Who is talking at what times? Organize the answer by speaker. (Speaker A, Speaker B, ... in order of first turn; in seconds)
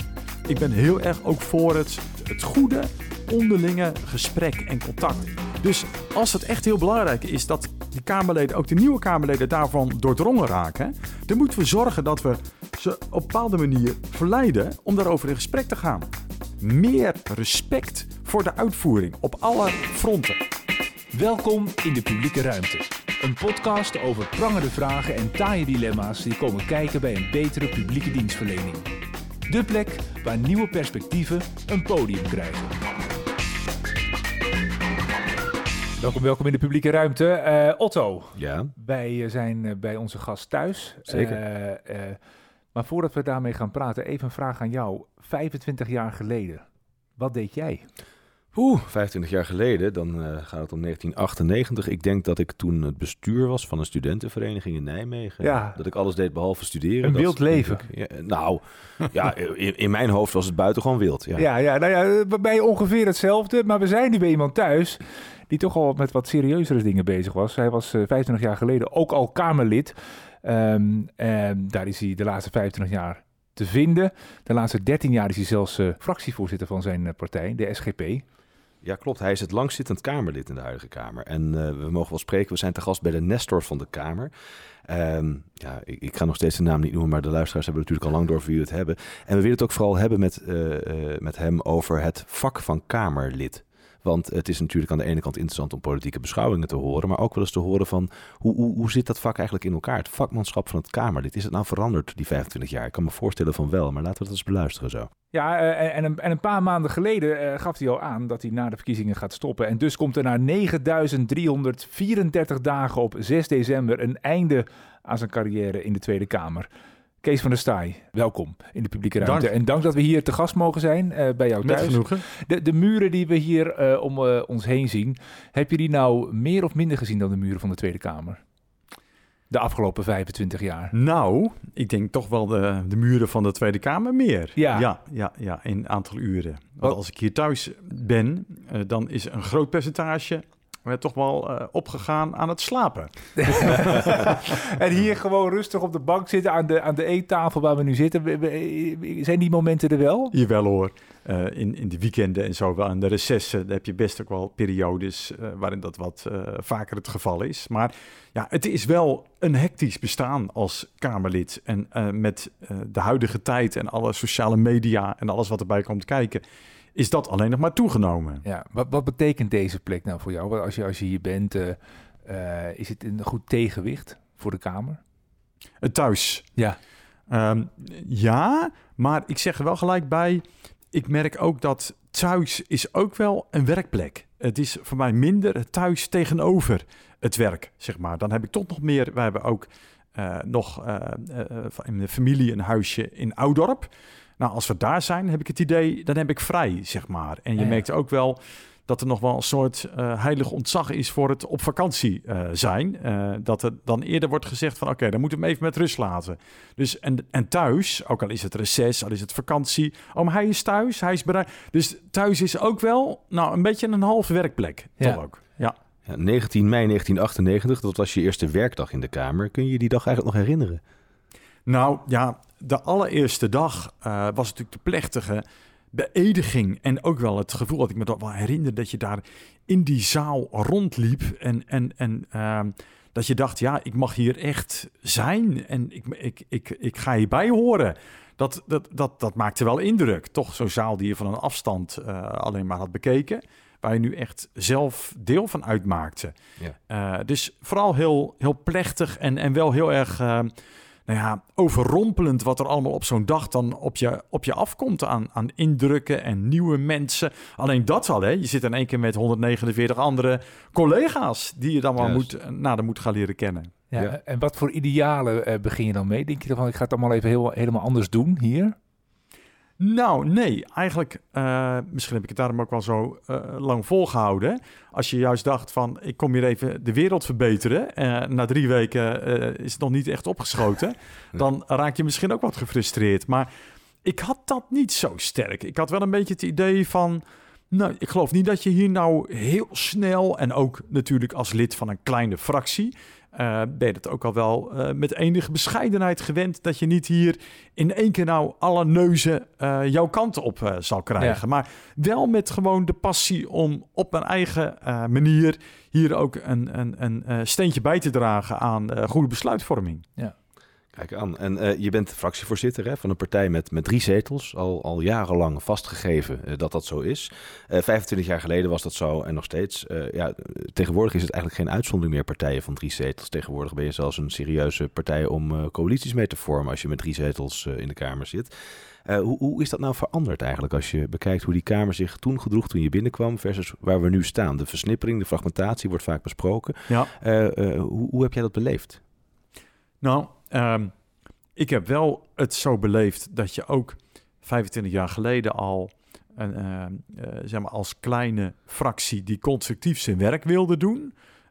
Speaker A: 0.5-16.1, 16.6-20.4, 119.2-119.5, 121.6-122.2, 130.9-144.4, 150.3-166.4, 166.9-168.4, 175.8-176.5, 177.3-215.8, 221.7-246.3, 246.9-250.5, 251.1-263.7, 269.8-283.5, 284.0-310.0, 340.0-340.9, 341.6-351.1
Speaker B: 21.1-28.9, 29.5-32.8, 36.0-42.2, 42.7-46.6, 47.2-47.9, 55.4-55.8, 57.0-57.8, 61.4-78.2, 105.3-116.7, 117.2-128.4, 129.5-130.9, 134.6-134.9, 143.4-150.3, 168.4-175.0, 197.6-197.8, 263.9-268.7
Speaker C: 38.4-38.7, 41.1-41.4, 48.5-61.5, 78.8-84.3, 84.9-105.1, 216.1-220.8, 262.0-262.3, 310.9-328.5, 329.0-339.0